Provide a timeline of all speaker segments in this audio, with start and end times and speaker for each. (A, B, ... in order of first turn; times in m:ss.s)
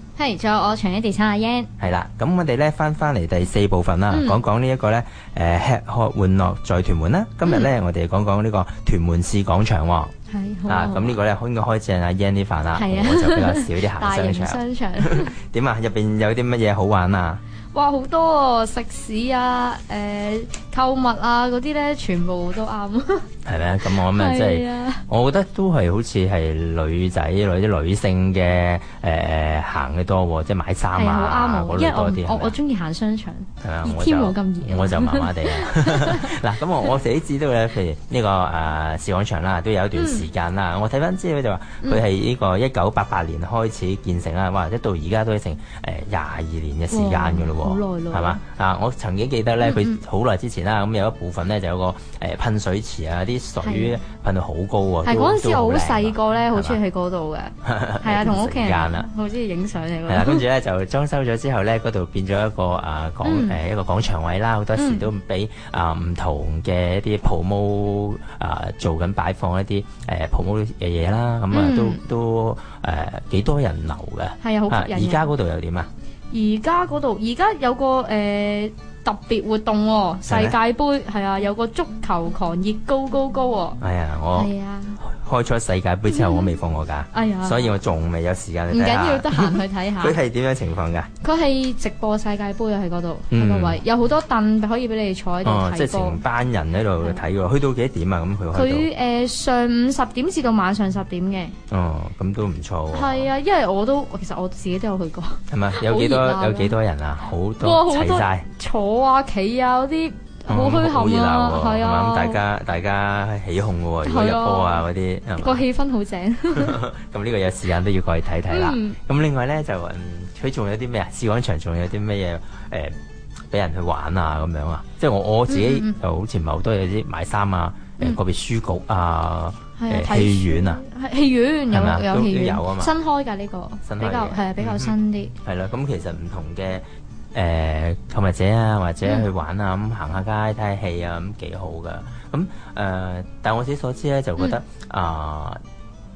0:00.2-0:01.7 A
0:01.8-0:10.1 B
0:04.1-0:04.4 A
0:10.3-0:11.2 A
0:10.7-0:17.4 B
0:12.7-0:15.3 A
0:17.7-0:23.2 A
0:23.4-0:32.6 B
0:23.8-0:25.0 A
0:30.9-0:36.4 A
0:33.6-0:56.8 B
0:39.9-0:40.2 A
0:46.9-0:48.4 A
0:49.6-0:50.0 A
0:53.6-0:54.0 A
0:55.0-1:00.4 A
0:57.6-0:59.1 B
1:00.1-1:15.9 B
1:03.2-1:03.6 A
1:04.7-1:05.1 A
1:11.5-1:12.0 A
1:14.4-1:15.3 A
1:16.3-1:23.8 A
1:20.3-1:20.6 B
1:23.8-1:31.1 B
1:24.3-1:25.0 A
1:26.1-1:26.5 A
1:27.1-1:27.7 A
1:28.7-1:30.2 A
1:31.2-1:36.2 A
1:33.3-1:33.8 B
1:35.4-1:38.9 B
1:38.5-1:41.5 A
1:41.7-1:43.3 B
1:42.9-1:46.8 A
1:45.5-1:48.5 B
1:47.6-1:52.4 A
1:50.5-1:55.6 B
1:54.0-1:54.9 A
1:55.4-1:56.8 A
1:56.5-2:03.0 B
1:58.5-1:59.0 A
2:03.5-2:10.8 B
2:05.5-2:06.0 A
2:09.8-2:15.3 A
2:11.7-2:12.9 B
2:13.8-2:25.6 B